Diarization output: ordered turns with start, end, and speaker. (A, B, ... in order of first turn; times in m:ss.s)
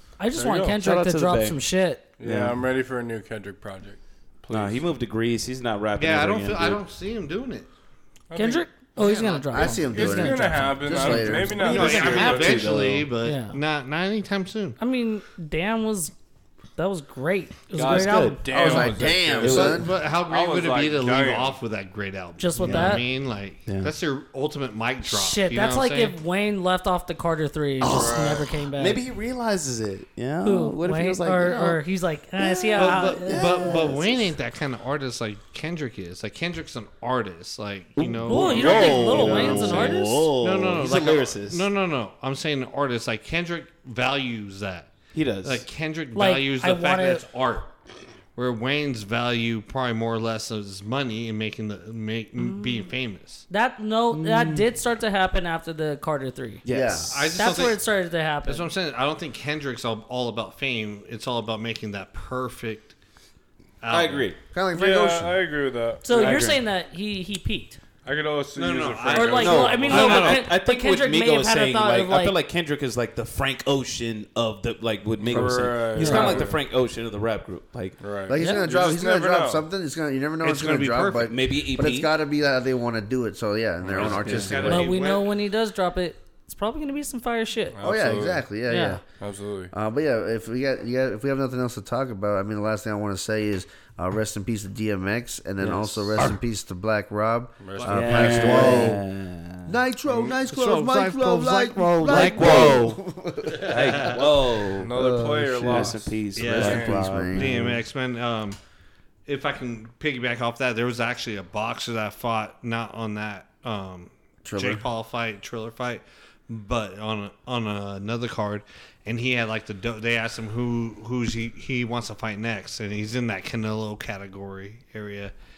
0:00.2-0:02.0 A
0:00.4-0:00.8 B
0:00.7-0:01.6 C
0:02.2-0:04.8 B
0:02.2-0:02.6 C
0:04.5-0:06.8 C
0:06.0-0:07.7 D
0:08.3-0:08.6 B
0:08.3-0:10.7 A
0:09.0-0:09.8 D
0:09.5-0:11.7 E
0:09.8-0:12.8 B
0:10.9-0:14.8 D
0:11.6-0:13.1 C
0:13.2-0:13.6 A
0:14.8-0:16.1 A
0:16.8-0:18.5 A
0:17.7-0:21.6 B
0:17.9-0:18.8 C
0:18.5-0:19.9 E
0:19.4-0:19.8 C
0:19.4-0:26.2 D
0:22.4-0:23.0 A
0:22.6-0:23.0 C
0:23.6-0:23.9 C
0:25.0-0:29.0 A
0:27.8-0:31.8 C
0:27.8-0:28.4 B
0:30.4-0:33.8 A
0:32.4-0:34.3 C
0:32.8-0:47.7 D
0:38.0-0:41.6 C
0:38.2-0:40.3 A
0:45.1-0:45.6 C
0:46.1-0:47.2 A
0:48.4-0:53.4 D
0:52.4-0:52.9 A
0:53.5-0:56.6 A
0:54.1-0:54.7 C
0:56.6-0:57.3 C
0:56.6-0:57.3 E
0:57.1-0:57.8 D
0:57.3-0:58.7 A
0:58.4-1:02.9 D
1:03.8-1:04.3 D
1:03.9-1:04.4 C
1:04.5-1:05.3 E
1:04.7-1:06.6 B
1:06.0-1:07.8 A
1:06.1-1:06.6 C
1:08.0-1:10.3 B
1:08.6-1:10.5 D
1:09.1-1:12.4 A
1:09.4-1:18.0 C
1:15.2-1:16.6 B
1:16.0-1:16.4 A
1:18.0-1:19.6 B
1:18.3-1:25.0 E
1:18.4-1:18.7 A
1:20.4-1:21.3 D
1:21.2-1:22.1 C
1:23.8-1:24.4 B
1:23.9-1:25.3 D
1:24.2-1:24.7 C
1:24.6-1:27.8 A
1:27.7-1:28.4 B
1:27.8-1:29.0 E
1:28.7-1:29.0 A
1:29.2-1:29.7 B
1:29.7-1:39.0 E
1:35.6-1:36.4 C
1:37.6-1:38.3 B
1:37.8-1:39.0 D
1:37.8-1:39.7 C
1:39.7-1:44.2 E
1:40.1-1:40.4 B
1:40.4-1:42.9 D
1:42.0-1:43.0 C
1:43.6-1:44.2 D
1:43.6-1:44.9 C
1:44.8-1:47.0 B
1:44.9-1:47.6 E
1:45.6-1:47.8 C
1:46.3-1:48.6 D
1:49.2-2:05.3 D
1:54.4-1:54.8 E